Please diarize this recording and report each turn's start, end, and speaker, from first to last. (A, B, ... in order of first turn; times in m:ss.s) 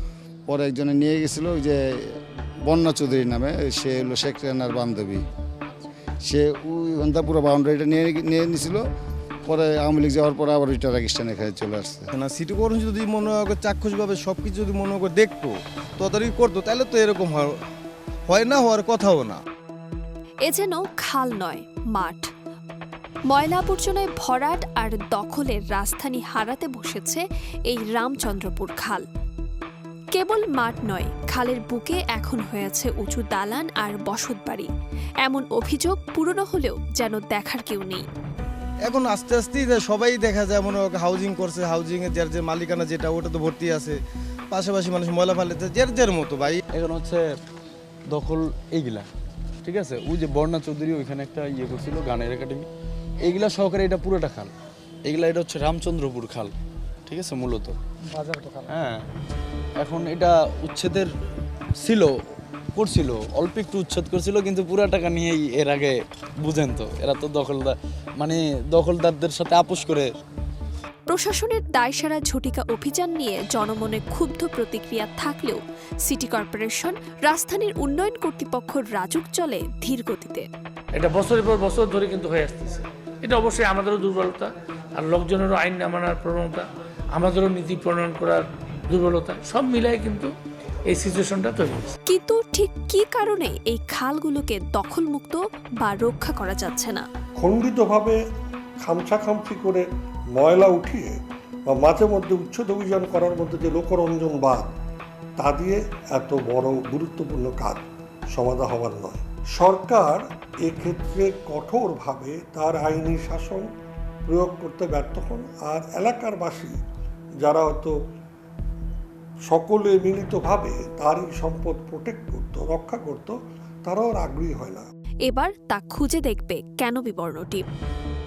0:00.5-0:01.8 A
0:02.7-0:05.2 A
0:06.2-0:08.8 A
0:09.5-0:12.1 A
0:12.1-0:17.6 B
0:18.3-0:19.4 B
0:20.5-0:22.3 C
0:23.3-0:29.0 C
0:30.2-0:34.7 C
0:35.2-0:38.0 C
0:38.9-0:44.0 B
0:44.5-0:46.6 B
0:46.7-0:47.3 D
0:48.1-0:49.1 D
0:49.6-0:52.7 D
0:53.2-0:54.5 D
0:55.0-0:56.5 D
0:57.1-0:57.8 D
0:58.7-0:59.0 D
0:59.8-1:01.1 D
1:01.8-1:02.1 D
1:02.8-1:10.1 D
1:11.1-1:20.5 C
1:21.0-1:30.3 E
1:30.9-1:31.9 E
1:32.1-1:37.0 C
1:37.4-1:38.2 F
1:38.8-1:44.7 F
1:45.4-1:53.7 F
1:54.3-1:56.8 F
1:57.4-1:58.0 F
1:59.5-2:04.9 F
2:05.3-2:07.6 C